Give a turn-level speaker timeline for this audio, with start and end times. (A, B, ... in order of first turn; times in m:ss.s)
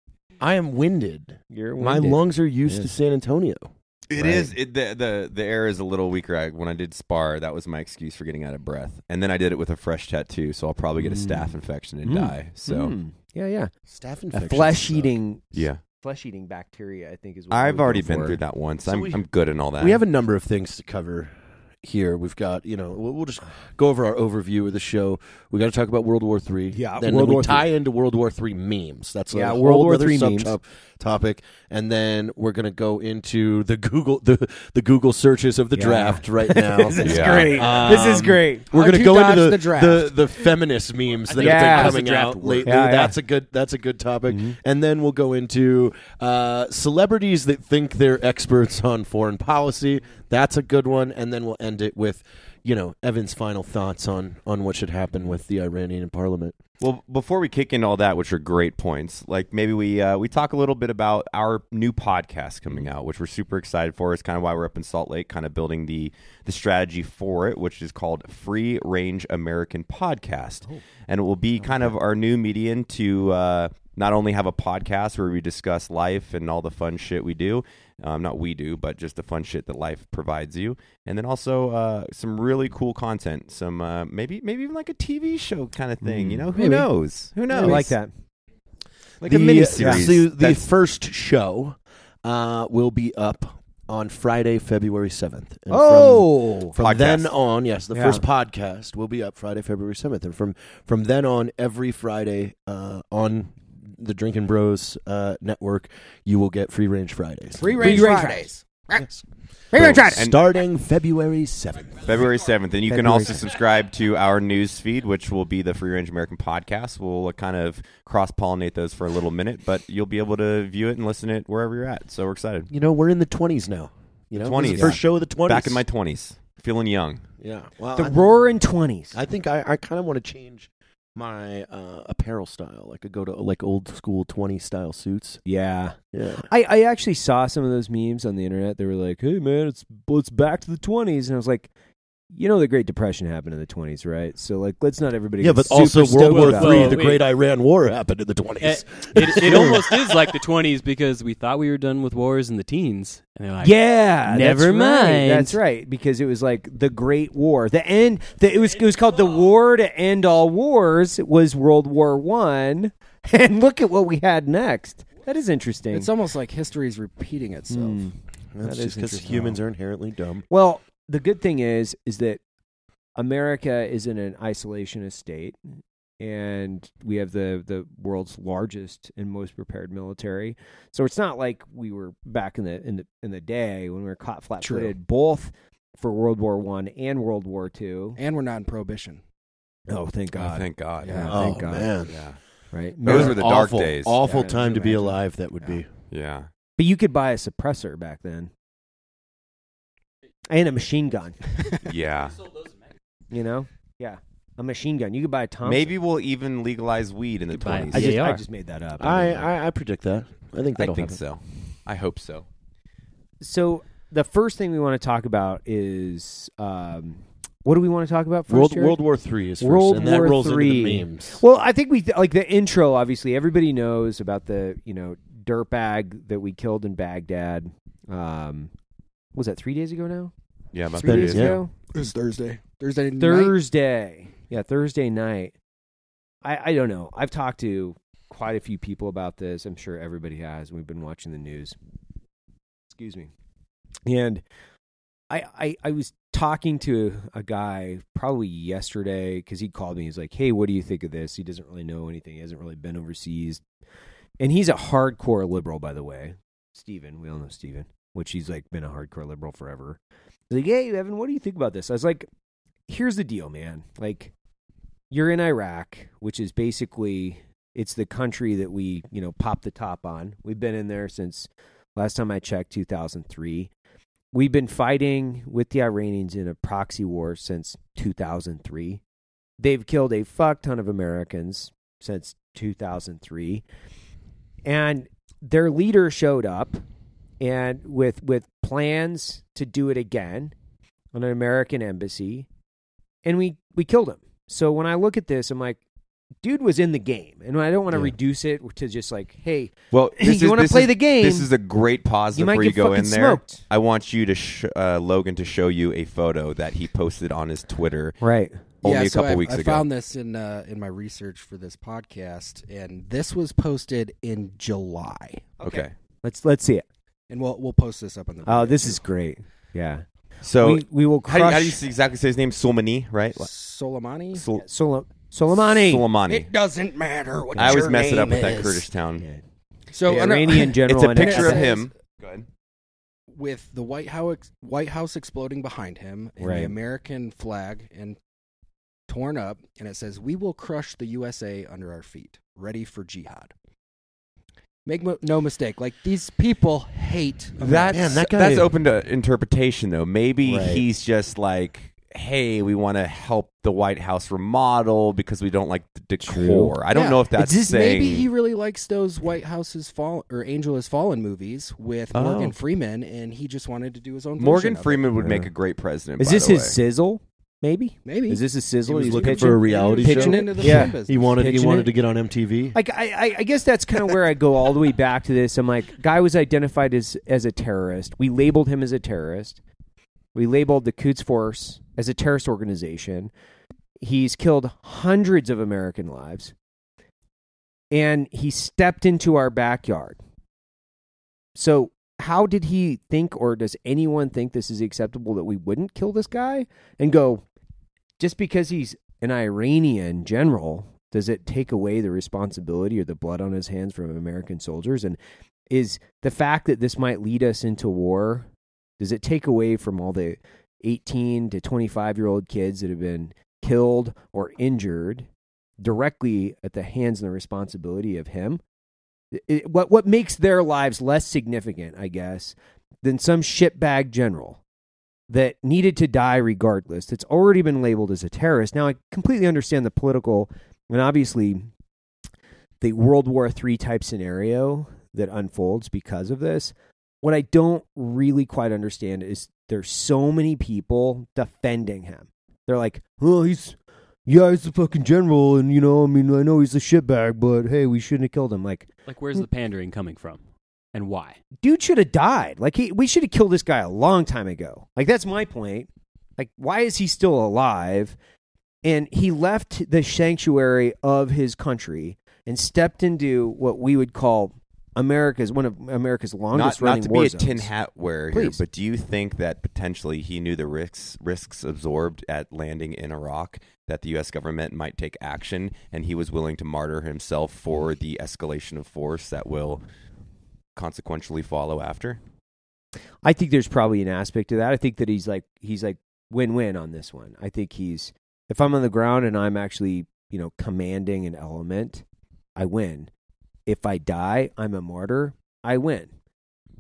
0:00.4-0:04.5 A
0:01.5-0:02.9 B
0:04.1-0:12.9 C
0:11.0-0:13.7 B
0:13.9-0:15.2 A
0:14.3-0:18.4 B
0:15.5-0:15.8 C
0:17.5-0:20.0 C
0:18.9-0:19.2 A
0:19.8-0:56.5 A
0:26.7-0:27.7 B
0:29.3-0:30.6 B
0:35.7-0:38.7 B
0:37.0-0:37.8 C
0:38.7-0:40.3 D
0:41.1-0:42.8 E
0:41.4-0:42.0 B
0:42.6-0:43.2 B
0:44.3-0:44.6 B
0:56.8-1:27.9 C
1:26.0-1:26.9 B
1:27.5-1:28.1 B
1:27.5-1:27.9 A
1:29.2-1:30.6 B
1:29.2-1:48.1 A
1:29.5-1:30.4 C
1:35.7-1:36.8 B
1:36.8-1:37.4 C
1:37.9-1:38.2 B
1:47.6-1:49.2 D
1:47.8-1:48.5 B
1:49.7-1:50.4 C
1:49.7-1:50.0 B
1:49.7-1:52.1 A
1:49.8-1:50.2 D
1:52.0-2:02.7 C
1:52.9-1:53.4 B
2:02.7-2:05.8 A
2:04.4-2:07.3 C
2:04.6-2:05.0 B
2:07.4-2:08.4 A
2:07.9-2:09.2 B
2:09.1-2:15.4 A
2:15.4-2:21.7 B
2:16.1-2:16.5 A
2:22.3-2:27.0 B
2:25.4-2:30.3 A
2:25.8-2:27.3 E
2:28.6-2:35.6 E
2:33.6-2:46.1 B
2:45.9-2:48.1 D
2:47.7-2:49.6 B
2:48.5-2:50.4 A
2:50.5-2:52.4 B
2:53.2-2:55.6 B
2:56.2-3:08.2 B
3:04.6-3:04.9 D
3:08.2-3:09.2 D
3:09.9-3:11.9 B
3:10.3-3:12.4 C
3:11.0-3:11.3 D
3:11.2-3:12.2 A
3:12.7-3:13.4 B
3:13.0-3:14.2 C
3:13.0-3:15.9 A
3:14.2-3:15.2 B
3:16.1-3:16.5 C
3:16.8-3:18.5 B
3:20.5-3:21.4 B
3:21.8-3:22.5 C
3:23.3-3:25.9 B
3:25.6-3:28.1 C
3:27.5-3:28.4 E
3:27.9-3:29.5 B
3:29.0-3:31.2 A
3:30.7-3:32.4 C
3:33.4-3:39.0 B
3:38.5-3:41.4 A
3:39.6-3:48.7 B
3:49.3-3:50.3 B
3:50.7-3:51.6 C
3:51.0-3:51.7 B
3:51.0-3:51.6 A
3:51.9-3:53.6 D
3:53.2-3:55.5 B
3:56.4-4:01.7 B
4:02.9-4:03.3 B
4:04.0-4:04.4 B
4:05.3-4:13.6 B
4:14.4-4:20.0 B
4:20.5-4:22.3 B
4:22.9-4:24.3 B
4:25.1-4:33.7 B
4:34.3-4:39.0 B
4:39.6-4:43.6 B
4:44.6-4:46.8 B
4:47.4-4:50.5 B
4:51.1-4:52.5 B
4:53.2-4:55.8 B
4:56.4-5:01.5 B
4:59.9-5:08.2 C
5:02.3-5:03.6 B
5:08.2-5:08.6 B
5:08.8-5:09.9 C
5:08.8-5:15.6 D
5:15.6-5:16.8 B
5:15.6-5:15.9 C
5:17.3-5:19.0 D
5:18.4-5:20.0 B
5:20.4-5:23.5 C
5:20.6-5:21.8 B
5:23.4-5:24.4 D
5:24.3-5:24.6 C
5:24.6-5:26.0 B
5:25.6-5:26.5 C
5:26.3-5:28.9 D
5:27.6-5:27.9 B
5:27.6-5:29.2 C
5:29.9-5:31.9 D
5:30.0-5:31.7 B
5:30.8-5:32.5 C
5:33.3-5:38.2 D
5:36.4-5:36.7 B
5:39.1-5:43.5 D
5:44.8-5:48.2 D
5:47.6-5:58.3 C
5:47.9-5:48.7 A
5:50.4-5:50.8 B
5:56.2-5:56.8 B
5:56.9-6:05.1 D
5:57.4-5:57.8 B
6:02.1-6:02.5 C
6:04.4-6:06.8 C
6:05.2-6:05.5 B
6:06.2-6:11.9 B
6:08.0-6:11.7 D
6:08.9-6:12.8 A
6:12.7-6:19.6 B
6:20.3-6:23.3 B
6:24.0-6:26.5 B
6:27.9-6:30.2 B
6:31.5-6:37.4 B
6:38.2-6:45.2 B
6:45.7-6:48.5 B
6:49.0-6:55.3 B
6:55.8-6:58.6 B
6:59.3-7:04.6 B
7:05.3-7:11.7 B
7:12.8-7:29.4 B
7:29.1-7:30.4 E
7:30.9-7:31.4 E
7:31.6-7:38.2 B
7:38.8-7:47.7 B
7:46.5-7:59.8 C
7:48.3-7:48.6 B
8:00.7-8:02.2 C
8:03.2-8:12.0 B
8:12.6-8:13.1 B
8:13.7-8:16.1 B